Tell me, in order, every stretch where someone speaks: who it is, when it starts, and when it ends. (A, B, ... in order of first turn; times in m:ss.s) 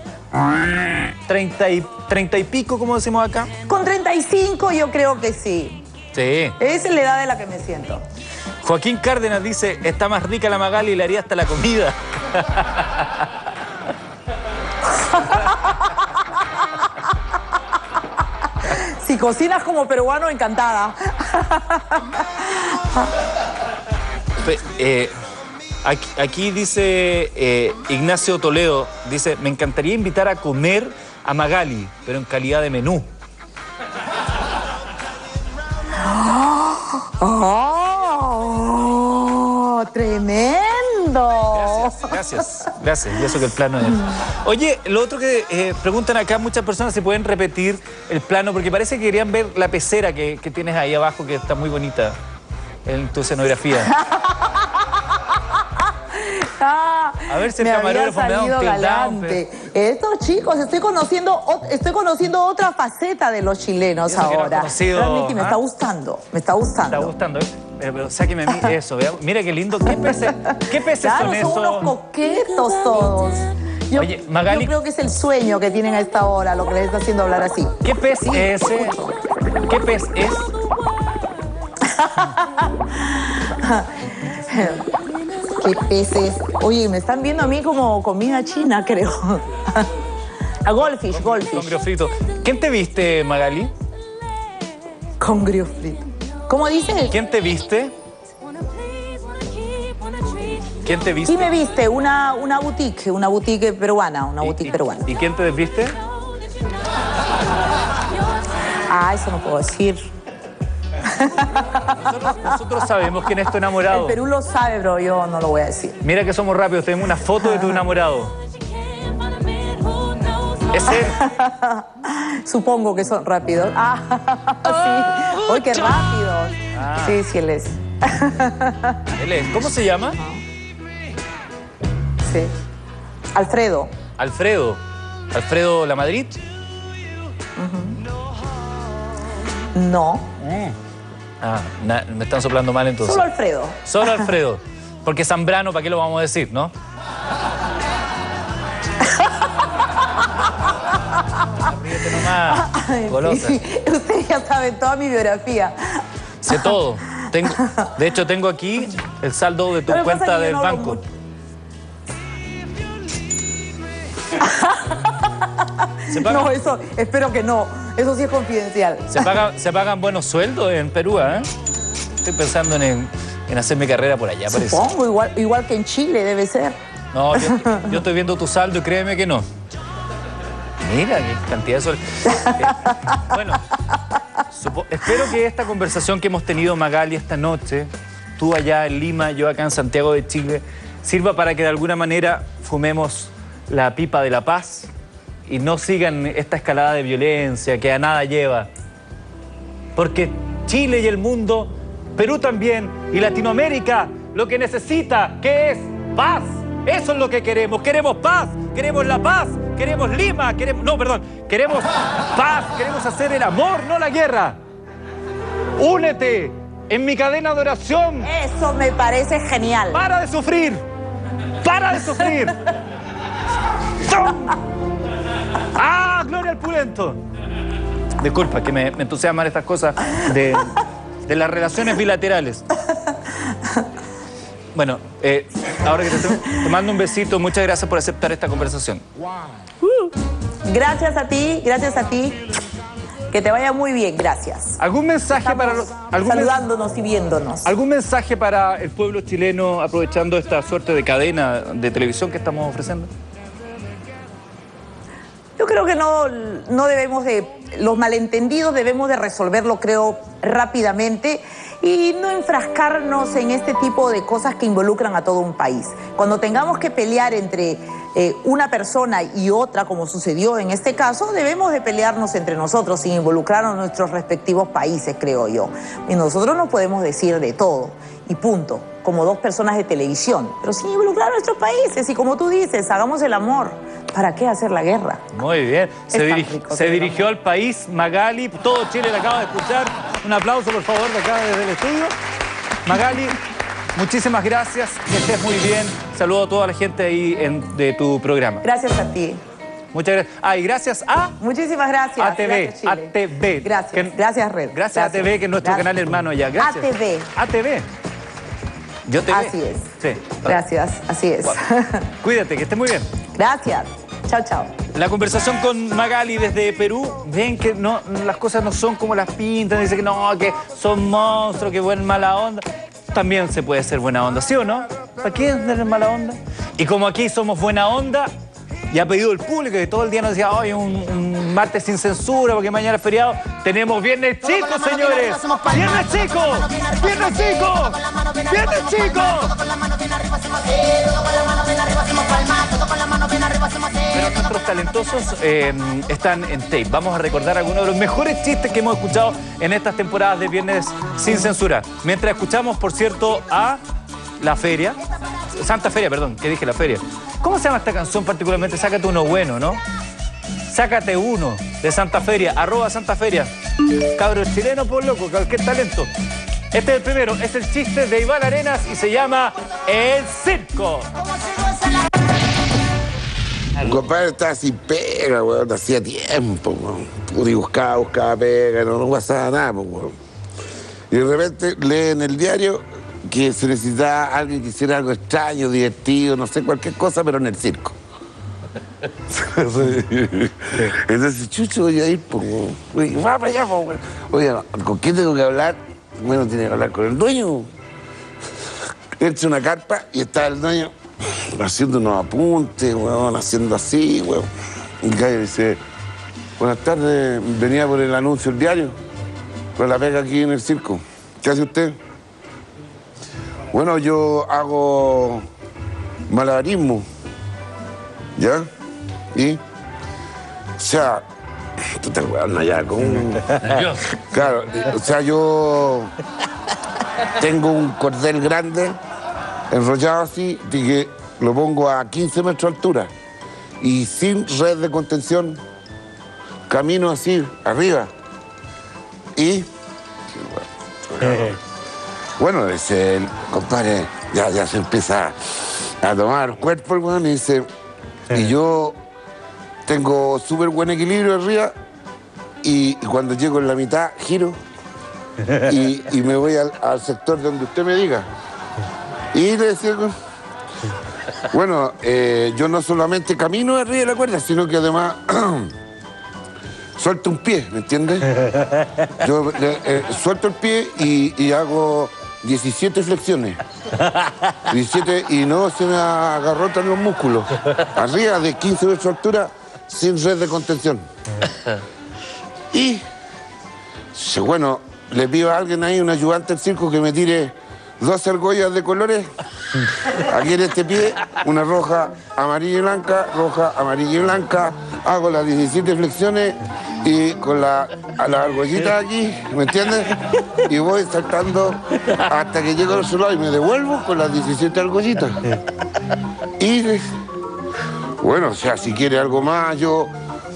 0:01.3-0:03.5 A
0:03.7-0:05.8 B
0:06.1-0:06.6 A
0:06.6-0:08.0 B
0:08.6-0:13.1 A
0:14.8-0:15.8 B
0:18.7-0:23.1 B
0:24.4-0:25.1 A
0:25.8-0:33.1 A
0:36.0-0:42.2 B
0:41.5-0:52.2 A
0:52.8-0:53.9 A
0:53.9-0:54.5 B
0:56.1-1:07.1 B
0:57.3-0:59.4 A
1:04.0-1:05.6 A
1:06.8-1:11.9 A
1:09.9-1:19.3 B
1:13.9-1:14.7 A
1:17.8-1:19.0 A
1:19.7-1:20.5 A
1:21.8-1:22.7 B
1:23.5-1:25.0 B
1:25.6-1:29.9 B
1:30.6-1:31.7 B
1:30.8-1:33.7 A
1:35.2-1:37.1 B
1:37.1-1:37.9 A
1:40.8-1:41.5 A
1:41.2-1:45.1 B
1:44.4-1:46.0 A
1:48.9-1:50.1 B
1:51.1-1:52.5 B
1:51.9-1:54.2 A
1:53.9-1:56.0 B
1:56.0-1:58.3 A
1:57.4-1:57.8 B
2:00.7-2:01.2 A
2:00.8-2:09.0 B
2:06.7-2:07.2 A
2:09.2-2:10.2 A
2:10.1-2:10.4 B
2:12.2-2:12.5 B
2:13.3-2:13.9 B
2:14.2-2:14.8 A
2:15.3-2:16.4 A
2:17.6-2:18.0 B
2:19.7-2:20.3 B
2:20.4-2:20.7 A
2:21.4-2:23.3 A
2:23.0-2:24.2 B
2:23.8-2:26.7 A
2:29.0-2:29.3 B
2:31.7-2:33.6 A
2:32.4-2:36.0 B
2:36.4-2:41.0 A
2:39.8-2:41.0 B
2:44.4-2:45.1 B
2:46.1-2:46.5 A
2:46.1-2:49.3 B
2:49.1-2:51.5 A
2:52.2-2:54.9 A
2:54.5-2:56.8 B
2:57.1-2:59.4 A
2:57.4-2:57.8 B
3:00.8-3:03.6 A
3:04.5-3:14.9 A
3:15.5-3:18.7 A
3:20.0-3:34.6 A
3:35.8-3:38.3 A
3:38.2-3:40.0 B
3:39.9-3:40.8 A
3:41.6-3:42.6 A
3:44.1-3:44.5 A
3:45.7-3:47.2 A
3:48.2-3:52.6 A
3:54.7-3:59.0 A
4:00.7-4:02.5 B
4:03.3-4:04.8 B
4:04.8-4:06.6 A
4:05.3-4:07.7 B
4:07.6-4:13.1 A
4:15.6-4:45.2 B
4:45.3-4:52.1 A
4:46.1-4:47.3 B
4:52.8-4:53.4 A
4:54.0-4:58.6 A
4:58.6-4:59.4 B
4:59.9-5:01.3 A
5:01.4-5:06.0 B
5:02.2-5:04.2 A
5:04.7-5:07.9 A
5:06.6-5:07.3 B
5:09.0-5:10.6 A
5:09.3-5:09.9 B
5:10.4-5:12.0 B
5:12.2-5:13.1 A
5:13.4-5:14.7 B
5:14.9-5:28.3 A
5:28.9-5:39.6 A
5:44.0-5:53.8 A
5:54.4-5:55.0 A
5:55.5-5:59.8 A
6:00.7-6:03.5 A
6:04.2-6:06.1 A
6:06.7-6:11.1 A
6:13.8-6:20.1 C
6:21.1-6:27.9 C
6:29.3-6:37.7 C
6:39.2-6:40.9 C
6:41.6-6:44.5 C
6:45.0-6:45.8 C
6:46.6-6:48.9 C
6:49.8-6:51.9 C
6:53.7-6:55.4 C
6:56.3-6:57.0 C
6:58.4-6:58.7 C
6:59.3-6:59.6 C
7:00.8-7:01.2 C
7:01.8-7:03.8 C
7:04.3-7:06.1 C
7:07.4-7:09.0 C
7:09.7-7:13.1 C
7:13.8-7:15.6 C
7:16.7-7:18.1 C
7:19.4-7:19.7 C
7:20.3-7:21.6 C
7:22.4-7:25.4 C
7:26.0-7:27.6 C
7:28.3-7:29.0 C
7:29.9-7:31.7 C
7:32.6-7:34.6 C
7:35.6-7:38.2 C
7:39.3-7:40.1 C
7:41.5-7:45.7 C
7:47.0-7:48.2 C
7:49.2-7:53.6 C
7:54.7-8:01.0 C
8:02.7-8:03.0 C
8:04.1-8:09.2 C
8:10.3-8:20.1 C
8:20.7-8:25.4 C
8:26.6-8:27.1 C
8:28.2-8:30.1 C